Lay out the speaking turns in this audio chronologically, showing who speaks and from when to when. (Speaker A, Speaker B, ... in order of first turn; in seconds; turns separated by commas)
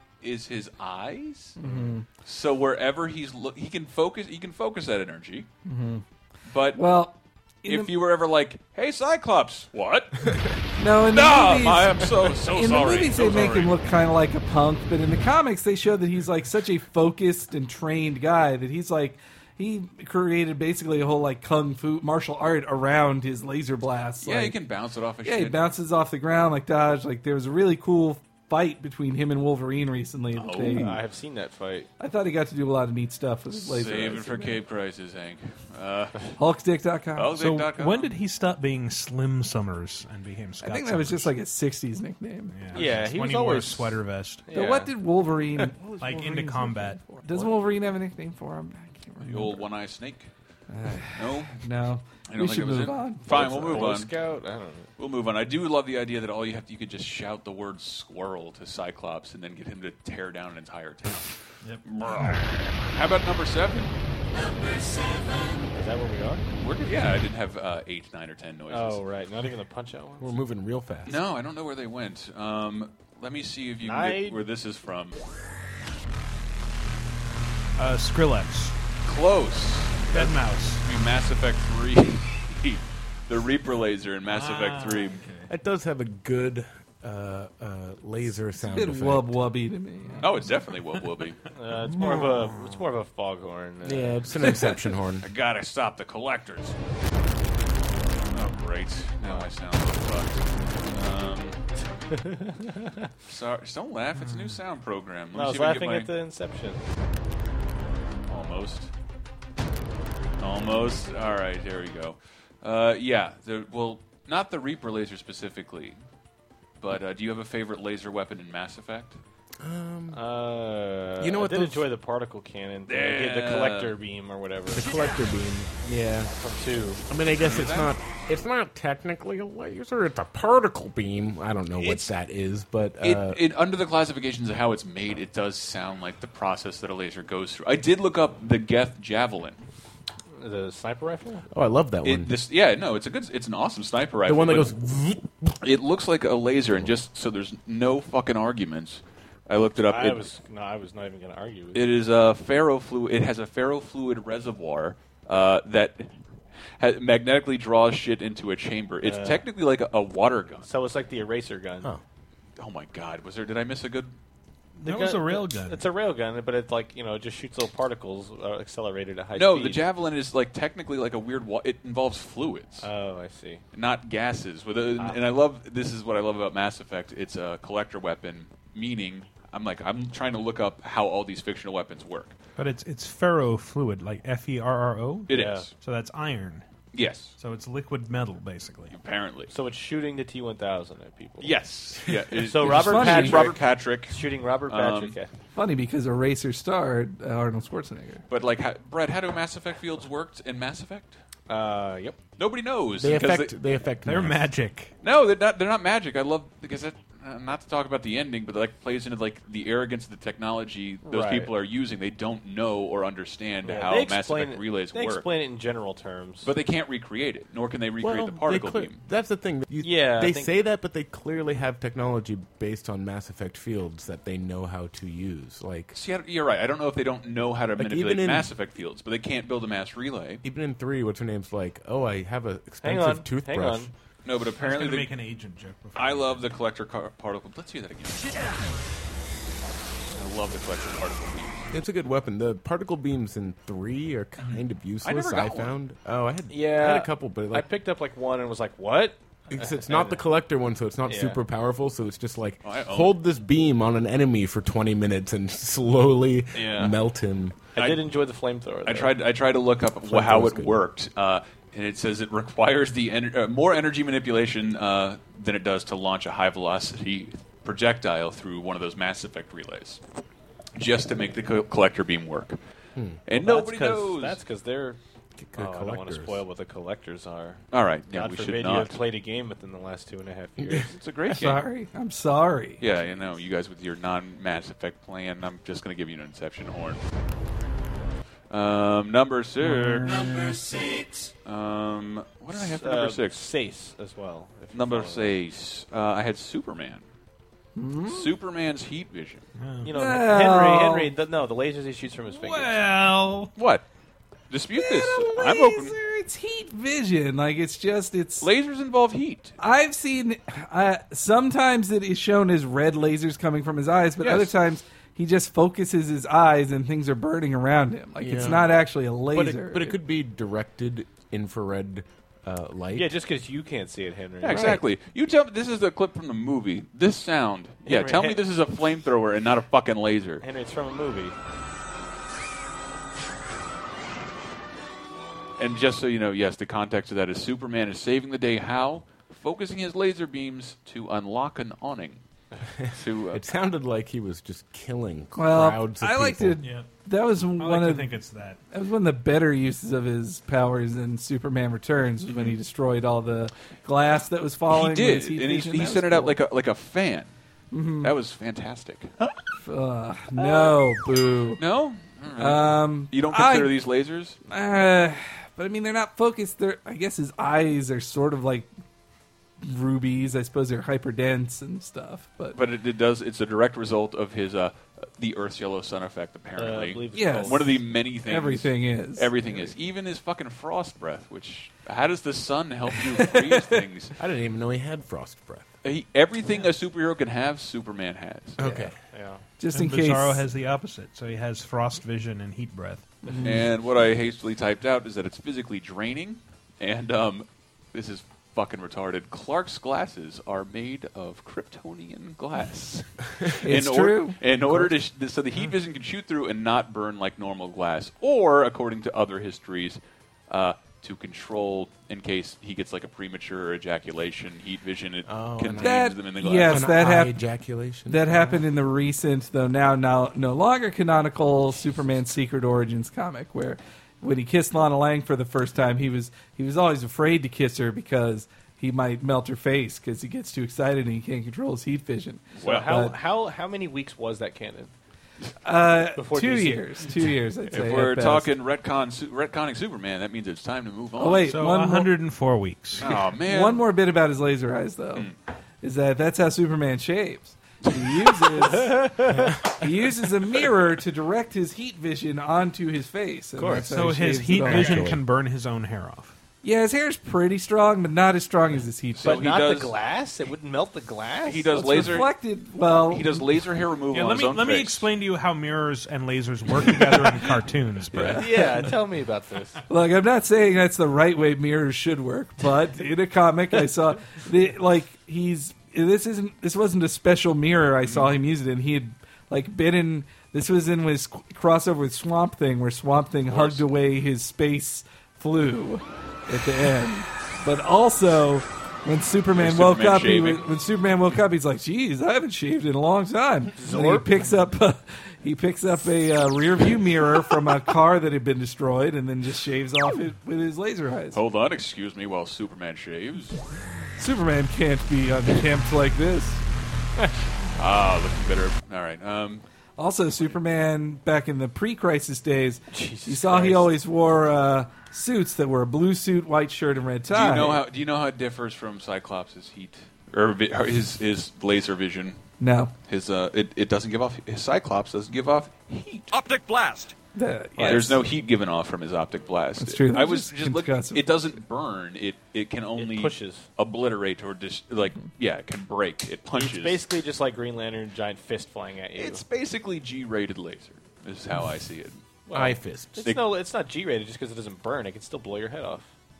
Speaker A: 0.2-1.7, Speaker B: 1.6-2.0, Speaker A: 2.2-5.5, Speaker B: 5.6-6.0, Speaker A: 6.5-6.8, Speaker B: 6.7-7.9, Speaker A: 7.6-10.3, Speaker B: 10.8-24.6, Speaker A: 11.1-13.7, Speaker A: 24.2-25.7, Speaker B: 25.2-31.0, Speaker A: 30.3-30.9, Speaker C: 30.7-31.9, Speaker B: 32.0-34.6, Speaker A: 33.5-36.3, Speaker B: 36.4-37.3, Speaker A: 37.2-38.1, Speaker D: 37.3-41.3, Speaker B: 40.6-42.5, Speaker D: 42.5-44.4, Speaker C: 42.7-44.9, Speaker B: 44.5-49.6, Speaker D: 46.0-47.5, Speaker A: 49.2-50.3, Speaker B: 50.7-53.9, Speaker A: 51.1-51.6, Speaker A: 52.3-54.1, Speaker C: 53.3-54.9, Speaker A: 55.0-63.9, Speaker C: 65.7-66.9, Speaker A: 66.6-69.0, Speaker C: 68.7-70.3, Speaker E: 70.2-71.2, Speaker A: 71.0-75.2, Speaker C: 73.8-74.4, Speaker D: 77.8-78.7, Speaker A: 79.0-85.2, Speaker D: 80.1-80.8, Speaker D: 84.3-85.5, Speaker E: 85.5-89.3, Speaker B: 88.6-90.3, Speaker A: 90.2-91.4, Speaker C: 91.5-94.4, Speaker E: 93.8-95.3, Speaker A: 95.2-96.8, Speaker A: 98.3-101.6, Speaker C: 102.1-103.1, Speaker A: 103.2-106.1, Speaker D: 104.2-104.6, Speaker C: 105.3-106.8, Speaker A: 108.3-108.9, Speaker A: 110.4-116.0, Speaker A: 116.8-119.2, Speaker E: 119.6-120.2, Speaker C: 120.1-125.0, Speaker E: 121.2-121.9, Speaker A: 122.9-124.0, Speaker E: 124.7-126.3, Speaker C: 126.3-127.0, Speaker E: 127.1-133.4, Speaker A: 127.3-127.9, Speaker A: 131.8-132.1, Speaker A: 133.0-139.6, Speaker C: 140.3-141.5, Speaker E: 141.5-142.3, Speaker A: 142.0-144.7, Speaker E: 144.2-145.5, Speaker A: 145.6-150.3, Speaker C: 149.8-151.9, Speaker A: 151.7-156.1, Speaker A: 156.8-160.7, Speaker C: 159.0-159.4, Speaker C: 160.6-161.9, Speaker A: 162.6-164.1, Speaker D: 164.8-165.8, Speaker C: 164.8-169.8, Speaker A: 169.3-172.9, Speaker C: 172.8-173.6, Speaker A: 173.7-182.4, Speaker D: 182.6-186.7, Speaker A: 185.3-185.7, Speaker C: 185.3-185.7, Speaker A: 186.9-187.3, Speaker D: 187.4-188.9, Speaker A: 188.9-189.5, Speaker C: 189.5-191.5, Speaker A: 191.4-195.2, Speaker C: 192.4-195.3, Speaker B: 192.7-193.5, Speaker B: 195.5-198.2, Speaker A: 198.3-201.2, Speaker C: 201.5-202.2, Speaker A: 202.4-203.6, Speaker E: 203.0-204.5, Speaker D: 204.0-204.9, Speaker A: 205.0-215.3, Speaker C: 211.0-211.5, Speaker C: 213.6-216.5, Speaker A: 216.4-219.0, Speaker E: 218.0-225.9, Speaker C: 219.8-220.5, Speaker A: 225.9-230.4, Speaker E: 227.8-228.5, Speaker E: 230.4-233.9, Speaker C: 232.8-233.9, Speaker A: 234.2-235.1, Speaker D: 234.6-236.5, Speaker A: 235.9-238.4, Speaker A: 240.1-241.7, Speaker E: 241.7-247.7, Speaker A: 244.4-245.8, Speaker C: 246.5-250.2, Speaker E: 249.5-257.5, Speaker C: 251.1-251.4, Speaker A: 252.6-253.1, Speaker C: 256.5-256.9, Speaker C: 257.7-259.1, Speaker A: 257.8-258.1, Speaker A: 258.8-270.0, Speaker E: 260.0-260.8, Speaker A: 270.8-272.6, Speaker E: 272.9-273.2, Speaker A: 273.2-274.4, Speaker C: 273.3-275.0, Speaker E: 275.4-276.4, Speaker C: 275.6-281.0, Speaker A: 277.7-279.0, Speaker E: 280.6-280.9, Speaker A: 280.9-281.6, Speaker B: 281.4-282.8, Speaker A: 282.8-287.0, Speaker A: 288.5-290.5, Speaker D: 289.6-290.5, Speaker A: 291.4-293.5, Speaker C: 292.5-295.3, Speaker A: 294.7-297.0, Speaker B: 297.8-298.3, Speaker A: 298.1-299.4, Speaker D: 299.6-299.9, Speaker C: 299.8-302.8, Speaker B: 299.9-301.1, Speaker D: 302.3-303.5, Speaker A: 303.6-303.8, Speaker A: 304.5-305.9, Speaker B: 304.8-308.5, Speaker A: 308.4-309.6, Speaker B: 309.6-320.0, Speaker E: 318.2-318.8, Speaker E: 319.3-323.1, Speaker C: 322.9-324.8, Speaker A: 324.4-330.4, Speaker E: 324.5-324.8, Speaker C: 327.8-328.4, Speaker C: 330.4-331.4, Speaker A: 335.6-342.2, Speaker E: 342.8-346.6, Speaker A: 342.9-343.4, Speaker B: 345.3-348.2, Speaker D: 346.6-346.9, Speaker D: 347.6-348.6, Speaker B: 348.7-356.4, Speaker A: 354.7-357.3, Speaker B: 357.7-358.1, Speaker A: 358.0-359.1, Speaker B: 359.6-361.6, Speaker A: 361.6-364.4, Speaker B: 362.4-363.8, Speaker B: 364.5-368.7, Speaker B: 369.6-372.6, Speaker A: 372.5-384.1, Speaker C: 376.6-377.8, Speaker B: 377.1-379.6, Speaker E: 384.2-385.7, Speaker A: 385.8-388.7, Speaker E: 388.6-388.9, Speaker C: 389.1-389.4, Speaker B: 389.6-390.4, Speaker D: 389.7-393.1, Speaker B: 393.2-393.6, Speaker A: 393.4-416.9, Speaker B: 403.6-404.9, Speaker E: 415.3-418.5, Speaker B: 415.8-417.4, Speaker B: 418.1-433.1, Speaker A: 432.6-432.9, Speaker C: 432.6-434.9, Speaker B: 435.6-438.5, Speaker C: 436.1-437.1, Speaker A: 437.7-441.5, Speaker B: 441.2-442.1, Speaker D: 441.4-443.2, Speaker A: 443.0-443.8, Speaker B: 443.4-445.3, Speaker B: 445.8-455.1, Speaker C: 448.7-449.5, Speaker C: 453.6-453.9, Speaker D: 453.9-456.3, Speaker E: 454.6-455.2, Speaker B: 456.6-459.4, Speaker A: 459.2-459.9, Speaker C: 459.2-462.0, Speaker A: 461.4-462.3, Speaker B: 461.7-463.4, Speaker A: 463.0-465.1, Speaker D: 464.1-468.6, Speaker B: 468.1-468.8, Speaker C: 468.3-469.8, Speaker B: 469.9-501.4, Speaker A: 483.5-483.8, Speaker A: 489.5-490.7, Speaker C: 493.8-494.4, Speaker A: 501.3-503.6, Speaker B: 504.2-506.6, Speaker A: 507.8-509.6, Speaker B: 510.0-517.8, Speaker C: 512.9-513.9, Speaker A: 517.3-522.4, Speaker B: 522.6-522.9, Speaker A: 523.1-526.6, Speaker B: 527.3-528.2, Speaker A: 527.8-537.0, Speaker B: 529.8-531.2, Speaker C: 533.0-533.7, Speaker C: 536.5-539.4, Speaker A: 539.1-542.2, Speaker C: 542.5-546.1, Speaker E: 542.5-543.2